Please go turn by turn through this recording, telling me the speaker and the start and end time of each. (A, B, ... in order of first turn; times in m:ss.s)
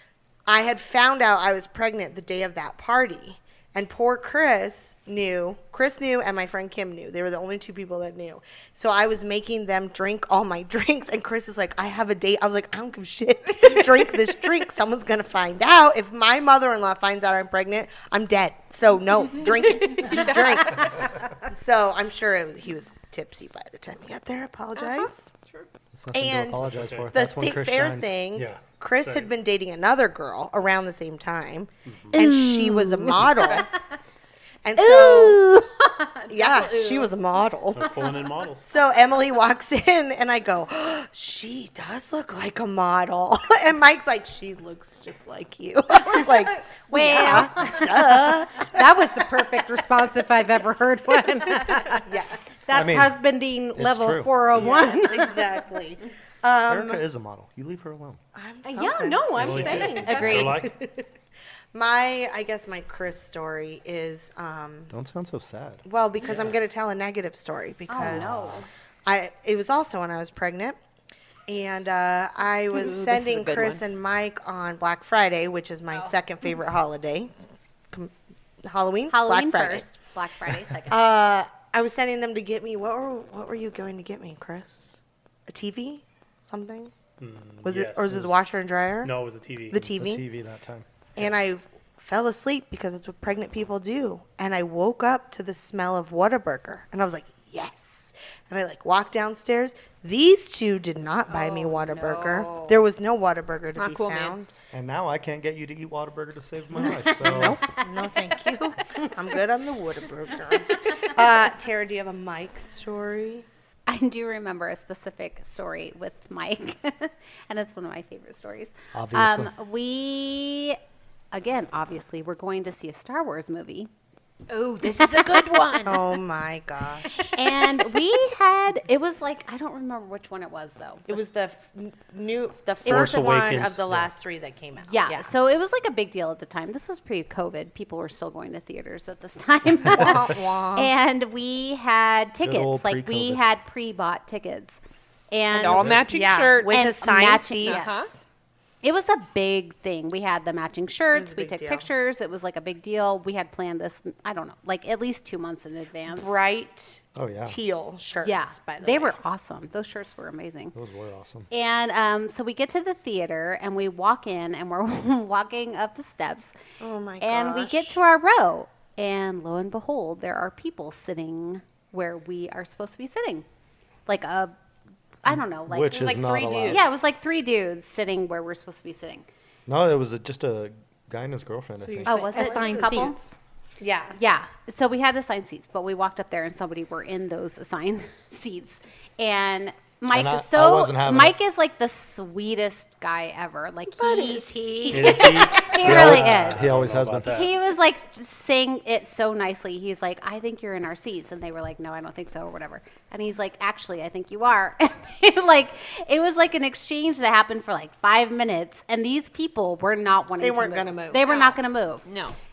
0:00.4-0:25.3 A
0:19.9-0:20.5 B
0:24.8-0:25.6 B
0:25.9-0:28.1 C
0:26.1-0:33.7 A
0:26.7-0:27.1 D
0:28.3-0:29.3 D
0:31.9-0:32.2 D
0:32.1-0:33.6 E
0:34.6-0:35.4 A
0:34.8-0:37.1 E
0:36.3-0:38.0 A
0:37.7-0:38.7 D
0:38.6-0:48.8 A
0:46.9-0:47.5 E
0:47.0-0:52.0 F
0:52.0-0:52.4 A
0:52.6-0:55.4 F
0:52.7-0:53.2 C
0:53.8-0:54.6 C
0:54.6-0:57.0 A
0:56.7-0:58.2 C
0:58.3-1:01.1 A
0:58.6-1:00.6 F
0:59.4-1:00.7 D
1:01.7-1:04.9 A
1:04.9-1:05.8 C
1:05.8-1:08.5 A
1:06.3-1:06.5 D
1:07.9-1:08.7 E
1:08.1-1:08.6 C
1:09.0-1:10.8 A
1:11.5-1:19.8 A
1:12.7-1:13.8 B
1:19.1-1:21.0 E
1:20.8-1:26.9 A
1:27.2-1:28.4 D
1:27.6-1:29.1 A
1:29.0-1:29.8 D
1:29.7-1:30.2 A
1:29.7-1:31.3 C
1:31.2-1:44.5 A
1:41.3-1:42.8 E
1:43.7-1:44.4 B
1:44.7-1:47.6 C
1:46.8-1:53.4 A
1:53.9-2:00.8 E
1:58.9-1:59.5 C
2:01.3-2:03.9 E
2:04.5-2:06.0 B
2:05.0-2:05.9 E
2:05.8-2:07.3 A
2:07.3-2:11.2 E
2:11.1-2:15.3 A
2:12.8-2:14.1 D
2:12.9-2:13.2 C
2:14.8-2:24.8 E
2:20.0-2:20.9 A
2:22.4-2:23.4 C
2:25.3-2:25.9 E
2:25.5-2:26.8 B
2:25.7-2:26.1 C
2:26.1-2:28.2 A
2:26.7-2:28.0 E
2:27.6-2:28.1 B
2:28.8-2:36.3 E
2:31.1-2:31.9 A
2:36.1-2:39.2 A
2:37.2-2:37.6 C
2:38.2-2:40.7 E
2:40.7-2:41.5 C
2:41.5-2:46.5 E
2:46.8-2:48.0 A
2:47.2-2:53.4 E
2:54.1-2:54.5 E
2:55.2-2:59.2 E
2:55.2-2:57.0 C
2:55.9-2:56.5 B
2:56.4-2:56.8 A
2:59.7-3:02.2 C
3:01.8-3:03.2 A
3:02.1-3:03.2 E
3:02.1-3:03.3 F
3:03.8-3:04.1 A
3:04.1-3:16.6 E
3:10.1-3:11.4 C
3:14.0-3:15.9 A
3:14.9-3:17.6 D
3:15.8-3:17.3 C
3:17.3-3:32.0 E
3:30.4-3:31.2 A
3:31.2-3:32.4 B